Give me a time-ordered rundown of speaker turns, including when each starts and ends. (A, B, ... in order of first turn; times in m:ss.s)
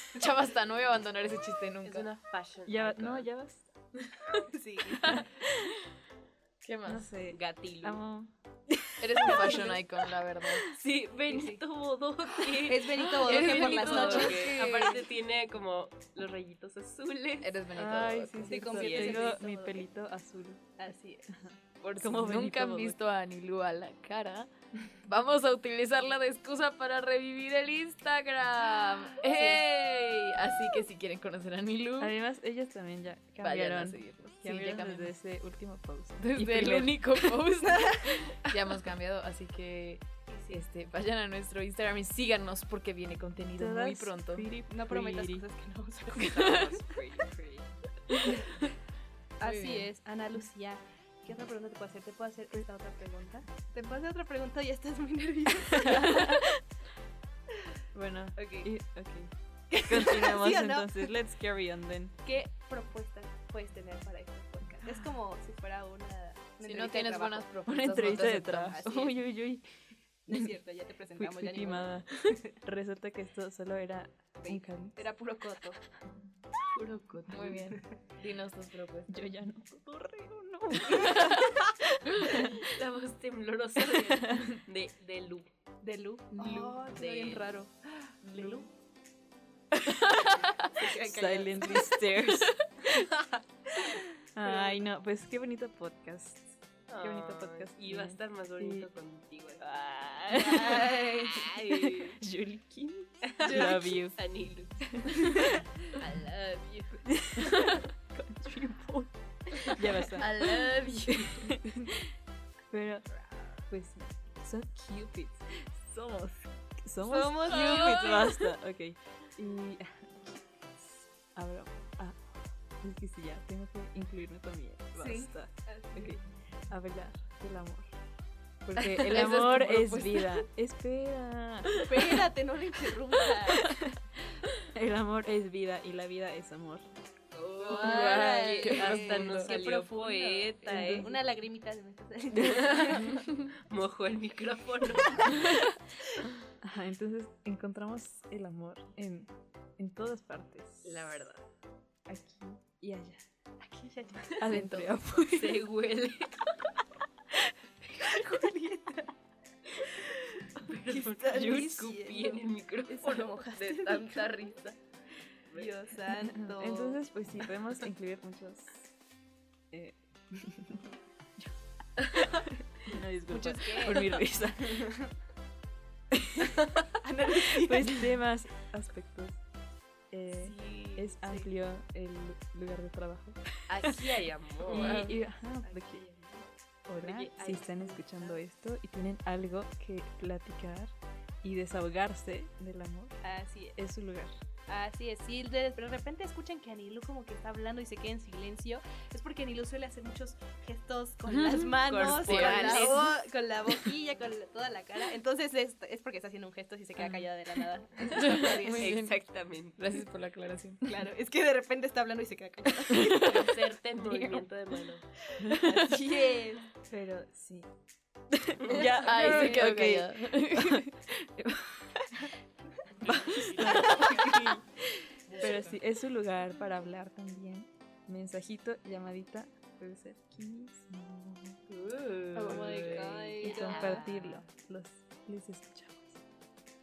0:00.1-0:02.1 A
0:01.8-0:03.3 B
0:02.7-0:04.5 C
0:04.4-0:05.3 D
0:05.0-0:05.8 C
0:06.6-0:07.1 A
0:06.9-0:09.8 C
0:07.3-0:08.0 B
0:09.0-0:10.7 A
0:09.3-0:09.7 B
0:10.7-0:17.6 B
0:11.3-0:11.6 D
0:12.6-0:14.7 D
0:13.2-0:15.1 A
0:17.4-0:18.8 A
0:17.7-0:20.7 C
0:18.4-0:19.8 D
0:18.7-0:19.3 B
0:20.8-0:21.4 D
0:21.8-0:24.5 A
0:22.0-0:23.0 C
0:25.0-0:32.2 A
0:29.2-0:29.7 D
0:32.0-0:37.4 C
0:33.4-0:35.1 A
0:36.2-0:44.5 A
0:40.3-0:40.6 D
0:43.6-0:45.4 C
0:44.7-0:46.8 D
0:46.1-0:47.7 B
0:49.4-0:56.4 D
0:49.4-0:49.9 A
0:55.7-0:56.5 C
0:57.9-1:02.1 C
0:58.4-0:58.7 D
0:59.7-1:01.1 D
1:02.2-1:07.5 D
1:06.6-1:08.8 A
1:07.6-1:09.6 C
1:08.6-1:09.2 D
1:10.2-1:12.6 D
1:11.2-1:15.1 C
1:14.4-1:15.8 D
1:16.7-1:17.6 B
1:17.3-1:19.3 A
1:19.1-1:22.7 C
1:22.5-1:25.5 B
1:23.9-1:24.5 C
1:25.8-1:28.7 D
1:26.5-1:27.5 B
1:28.2-1:28.6 A
1:29.9-1:30.2 C
1:30.4-1:32.0 D
1:30.9-1:33.1 C
1:34.3-1:38.9 C
1:34.4-1:34.8 D
1:36.9-1:39.6 B
1:39.6-1:44.2 C
1:40.3-1:41.4 D
1:40.6-1:42.2 B
1:43.3-1:47.7 B
1:43.4-1:44.0 D
1:44.9-1:45.6 C
1:47.0-1:52.1 C
1:50.1-1:51.5 A
1:52.7-1:53.0 C
1:53.7-2:07.9 C
1:57.1-1:58.1 B
1:57.1-1:58.2 D
1:57.5-1:58.3 A
2:05.0-2:06.2 D
2:08.6-2:12.2 C
2:08.8-2:10.4 A
2:11.8-2:13.7 D
2:13.2-2:14.0 C
2:14.5-2:16.8 C
2:17.3-2:21.1 B
2:17.6-2:23.2 D
2:17.7-2:19.5 A
2:17.8-2:19.5 C
2:20.7-2:21.1 C
2:22.4-2:23.2 C
2:23.5-2:25.6 B
2:26.6-2:31.2 C
2:30.8-2:31.4 B
2:32.1-2:33.2 C
2:33.6-2:34.6 D
2:34.4-2:35.7 C
2:34.5-2:34.9 A
2:35.2-2:36.3 B
2:37.8-2:38.2 C
2:38.0-2:39.1 D
2:40.6-2:44.7 B
2:40.9-2:44.5 D
2:41.3-2:41.8 C
2:45.5-2:47.0 D
2:46.1-2:48.8 C
2:49.7-2:55.0 C
2:53.3-2:54.3 D
2:56.1-2:56.6 C
2:57.0-2:58.1 D
2:57.2-2:59.4 C
3:00.1-3:06.0 C
3:00.4-3:01.2 B
3:03.7-3:05.2 B
3:04.7-3:06.5 D
3:06.9-3:13.2 C
3:07.0-3:07.7 B
3:07.4-3:08.4 D
3:13.2-3:13.8 D
3:13.8-3:14.3 C
3:14.7-3:29.0 D
3:21.6-3:23.2 B
3:22.0-3:23.1 A
3:28.0-3:29.2 A
3:28.2-3:30.0 B
3:29.8-3:30.8 A
3:30.8-3:33.6 D
3:33.0-3:35.1 B
3:34.0-3:34.4 C
3:35.4-3:35.8 C
3:35.6-3:36.7 D
3:36.8-3:37.7 C
3:38.3-3:42.2 C
3:38.6-3:39.3 B
3:38.8-3:40.8 A
3:39.2-3:39.6 D
3:43.0-3:44.4 B
3:43.0-3:51.6 C
3:45.4-3:45.7 B
3:51.7-3:54.4 B
3:52.4-3:54.1 D
3:52.4-3:56.2 C